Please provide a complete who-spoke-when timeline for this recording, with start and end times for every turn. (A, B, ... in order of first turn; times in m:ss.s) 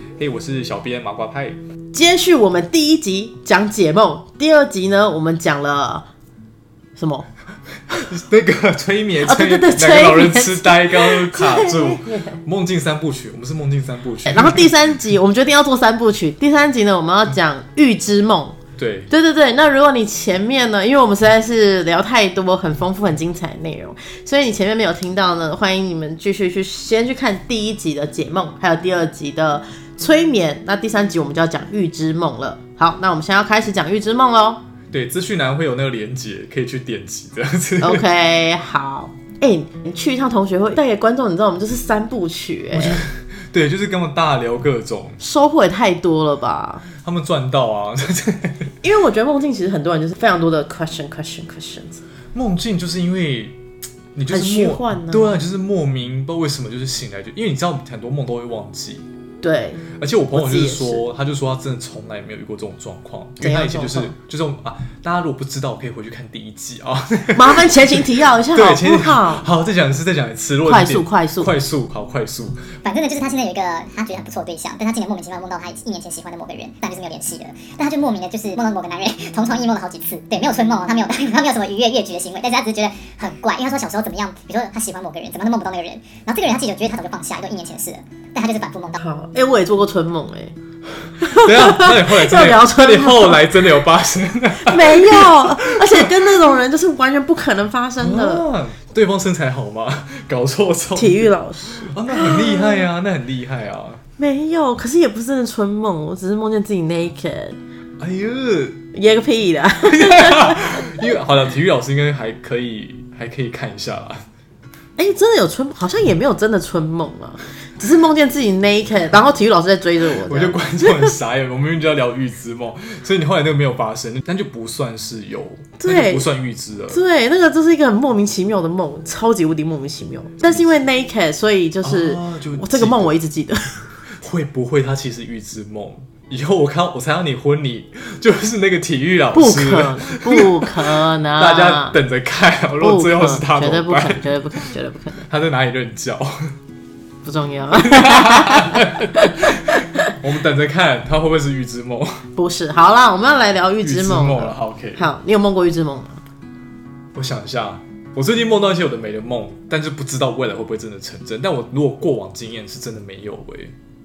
0:00.2-0:01.6 A
0:01.9-0:06.1 B
0:07.0-0:07.3 B
0:07.9-0:14.8 A
0:09.2-0:12.4 B
0:14.3-0:18.6 B
0:18.8-0:19.1 A
0:19.1-0:34.6 B
0:34.9-0:38.1 A
0:37.8-0:43.0 B
0:42.7-0:45.2 A
0:45.2-0:46.8 B
0:47.0-0:48.7 A
0:48.8-0:52.0 B
0:52.3-0:53.6 A
0:54.2-0:59.0 A
0:54.3-0:55.4 B
0:59.4-1:01.0 B
0:59.9-1:12.8 A
1:03.4-1:04.1 B
1:07.4-1:09.5 B
1:10.6-1:11.5 B
1:12.8-1:29.0 C
1:29.0-1:30.6 B
1:31.2-1:33.7 B
1:31.2-1:36.1 A
1:34.6-1:38.5 B
1:38.0-1:44.0 A
1:41.0-1:42.9 B
1:44.2-1:47.6 B
1:48.0-1:48.8 A
1:48.9-1:51.1 B
1:49.8-1:54.3 A
1:55.0-2:01.2 B
2:00.2-2:07.0 A
2:05.8-2:06.3 B
2:06.9-2:13.9 B
2:11.8-2:13.2 A
2:14.2-2:24.3 A
2:19.3-2:22.0 B
2:22.8-2:25.3 B
2:25.3-2:26.5 A
2:27.2-2:30.1 B
2:27.8-2:32.3 A
2:32.4-2:36.2 B
2:33.8-2:35.1 A
2:37.2-2:43.8 A